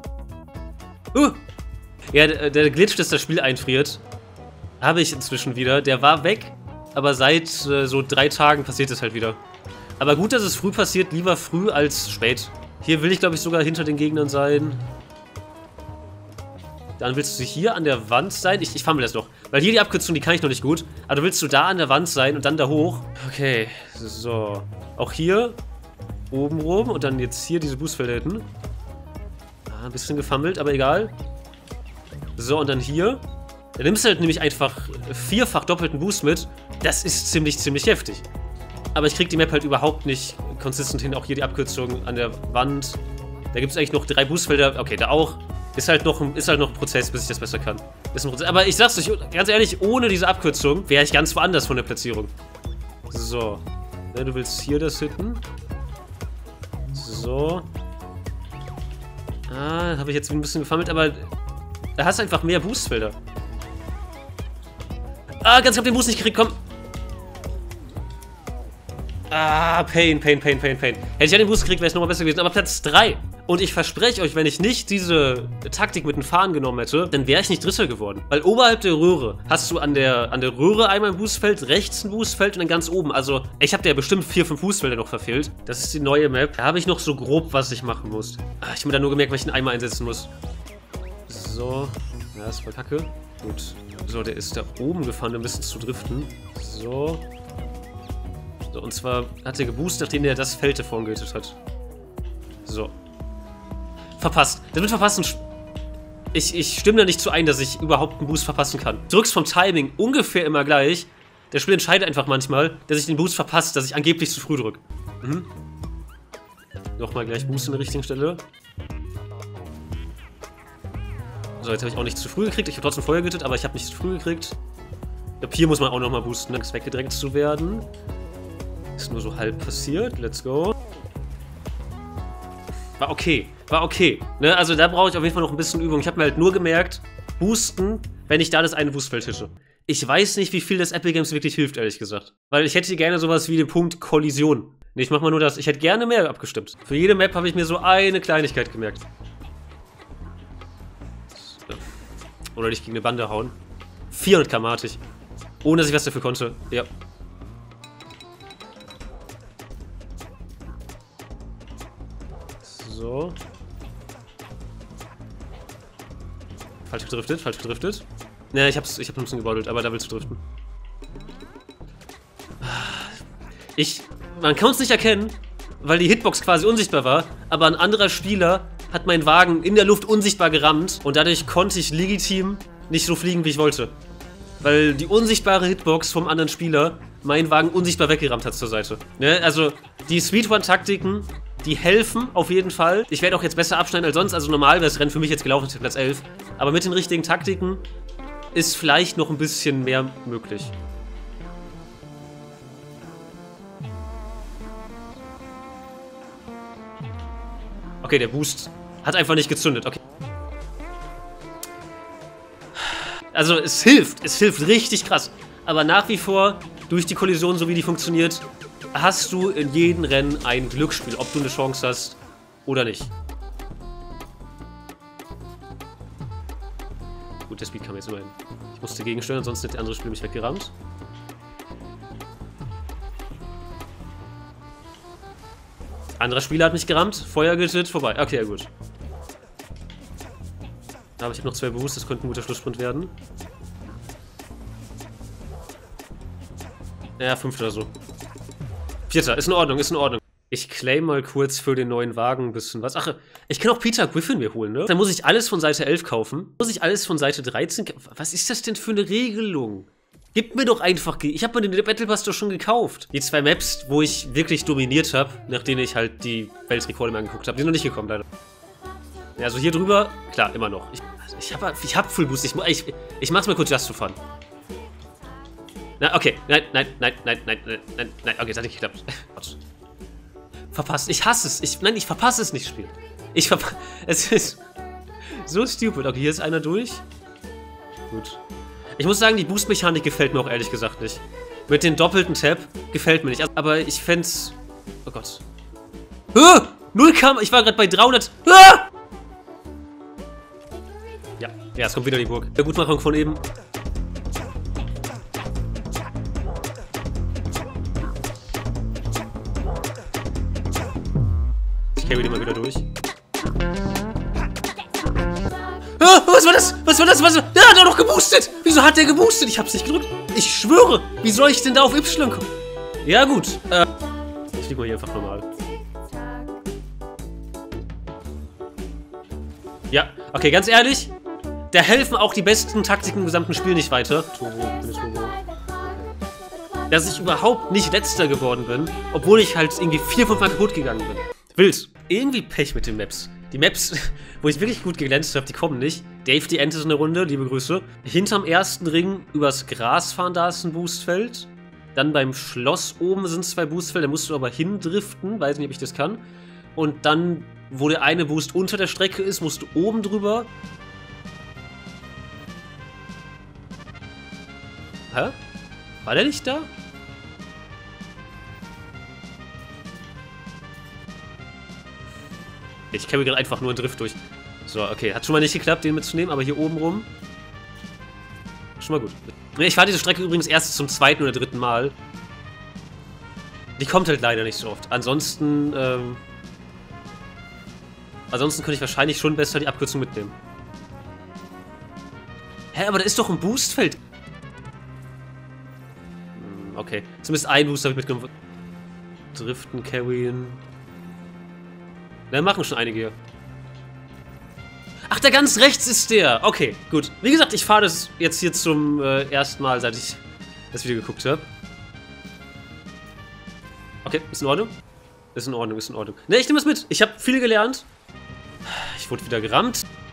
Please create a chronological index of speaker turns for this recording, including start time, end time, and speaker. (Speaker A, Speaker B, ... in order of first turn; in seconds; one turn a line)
Speaker A: 1.1-1.4
Speaker A: 2.1-4.0
Speaker A: 4.8-9.4
Speaker A: 10.0-14.8
Speaker A: 17.0-25.6
Speaker A: 26.3-28.5
Speaker A: 29.7-31.1
Speaker A: 32.4-33.2
Speaker A: 33.8-38.2
Speaker A: 38.9-43.0
Speaker A: 43.5-52.3
Speaker A: 53.1-55.4
Speaker A: 56.9-57.7
Speaker A: 59.5-61.3
Speaker A: 62.0-63.2
Speaker A: 65.4-66.6
Speaker A: 69.3-90.3
Speaker A: 91.3-97.2
Speaker A: 98.7-101.6
Speaker A: 102.7-102.9
Speaker A: 104.2-105.4
Speaker A: 106.3-115.5
Speaker A: 117.0-118.4
Speaker A: 121.6-124.6
Speaker A: 125.4-127.9
Speaker A: 129.0-130.8
Speaker A: 133.0-149.0
Speaker A: 151.3-151.8
Speaker A: 152.6-153.6
Speaker A: 154.1-155.0
Speaker A: 155.6-156.9
Speaker A: 162.6-163.4
Speaker A: 166.9-170.4
Speaker A: 172.6-173.2
Speaker A: 173.8-183.9
Speaker A: 184.6-197.8
Speaker A: 198.5-200.7
Speaker A: 208.0-210.0
Speaker A: 212.9-223.1
Speaker A: 227.5-230.7
Speaker A: 236.2-238.7
Speaker A: 241.2-243.1
Speaker A: 247.2-247.9
Speaker A: 249.1-268.3
Speaker A: 269.4-274.2
Speaker A: 276.0-279.6
Speaker A: 280.7-284.6
Speaker A: 285.3-287.0
Speaker A: 288.1-288.4
Speaker A: 289.0-295.4
Speaker A: 296.3-298.9
Speaker A: 301.4-303.4
Speaker A: 311.9-312.9
Speaker A: 316.0-322.5
Speaker A: 323.0-323.9
Speaker A: 324.5-325.5
Speaker A: 329.9-331.1
Speaker A: 331.7-335.4
Speaker A: 336.9-356.2
Speaker A: 356.8-360.5
Speaker A: 366.0-366.7
Speaker A: 372.9-377.1
Speaker A: 378.8-381.9
Speaker A: 383.8-386.2
Speaker A: 388.3-390.4
Speaker A: 392.7-394.0
Speaker A: 396.4-398.3
Speaker A: 399.3-400.6
Speaker A: 402.3-403.2
Speaker A: 405.1-410.2
Speaker A: 410.7-411.5
Speaker A: 414.1-414.8
Speaker A: 415.4-417.9
Speaker A: 418.6-419.9